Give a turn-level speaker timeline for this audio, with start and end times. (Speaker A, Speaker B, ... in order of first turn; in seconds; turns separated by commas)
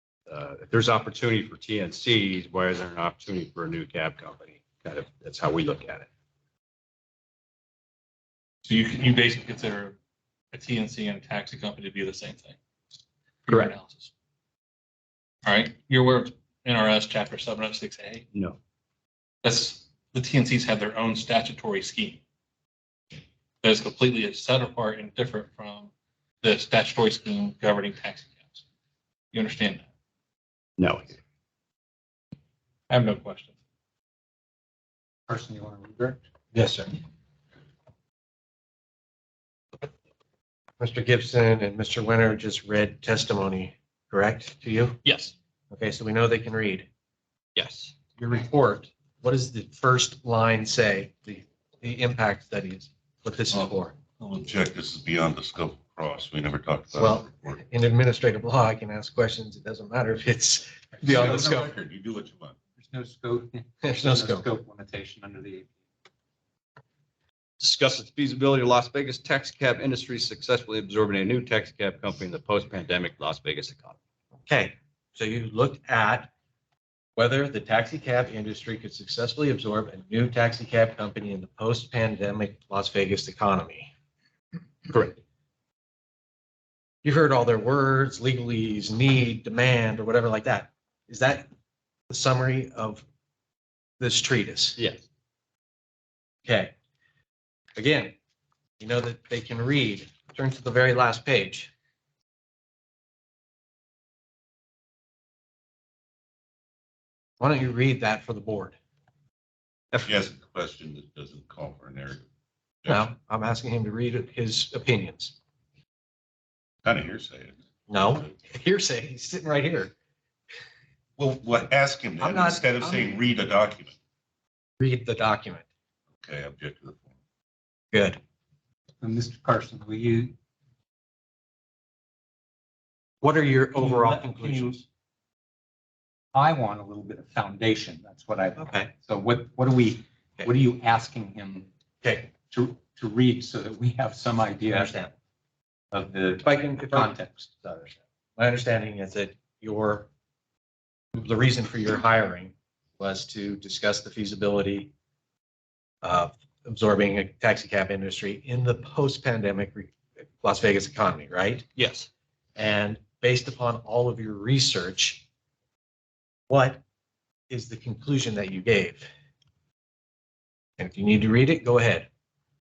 Speaker A: 0.3-6.1, Speaker B: 8.7-10.0, Speaker B: 10.5-12.6, Speaker B: 13.5-14.1, Speaker B: 15.4-18.2, Speaker B: 19.4-22.2, Speaker B: 23.6-25.9, Speaker B: 26.4-28.6, Speaker B: 29.3-29.9, Speaker A: 30.8-31.2, Speaker B: 32.9-33.6, Speaker C: 35.3-36.2, Speaker D: 36.5-37.0, Speaker D: 40.8-45.0, Speaker A: 45.0-45.3, Speaker D: 45.7-46.9, Speaker A: 47.6-47.9, Speaker D: 48.2-54.0, Speaker E: 54.2-57.5, Speaker D: 57.0-61.7, Speaker C: 61.0-61.7, Speaker E: 61.1-62.6, Speaker C: 62.8-65.7, Speaker D: 63.8-64.5, Speaker A: 67.6-74.0, Speaker D: 74.5-76.3, Speaker D: 77.2-83.9, Speaker A: 84.9-85.2, Speaker D: 87.0-91.5, Speaker D: 92.1-93.0, Speaker D: 94.0-94.8, Speaker A: 94.8-95.0, Speaker D: 96.5-96.8, Speaker D: 97.8-98.1, Speaker D: 98.8-101.7, Speaker D: 107.4-108.8, Speaker A: 109.9-110.2, Speaker E: 110.1-112.2, Speaker D: 112.9-115.3, Speaker E: 116.8-117.6, Speaker D: 117.9-119.9, Speaker E: 121.2-124.0, Speaker D: 122.2-123.2, Speaker D: 124.8-125.7, Speaker E: 126.2-127.1, Speaker D: 127.9-128.2, Speaker C: 129.0-130.3, Speaker D: 133.2-134.8, Speaker C: 133.8-134.8, Speaker C: 136.3-141.7, Speaker D: 138.6-138.9, Speaker C: 142.3-145.1, Speaker C: 145.9-147.9, Speaker D: 146.4-147.2, Speaker D: 148.4-150.1, Speaker D: 151.2-154.9, Speaker D: 156.0-161.7, Speaker A: 161.8-162.1, Speaker D: 162.6-165.2, Speaker D: 166.5-166.8, Speaker D: 167.5-169.1, Speaker D: 170.8-172.1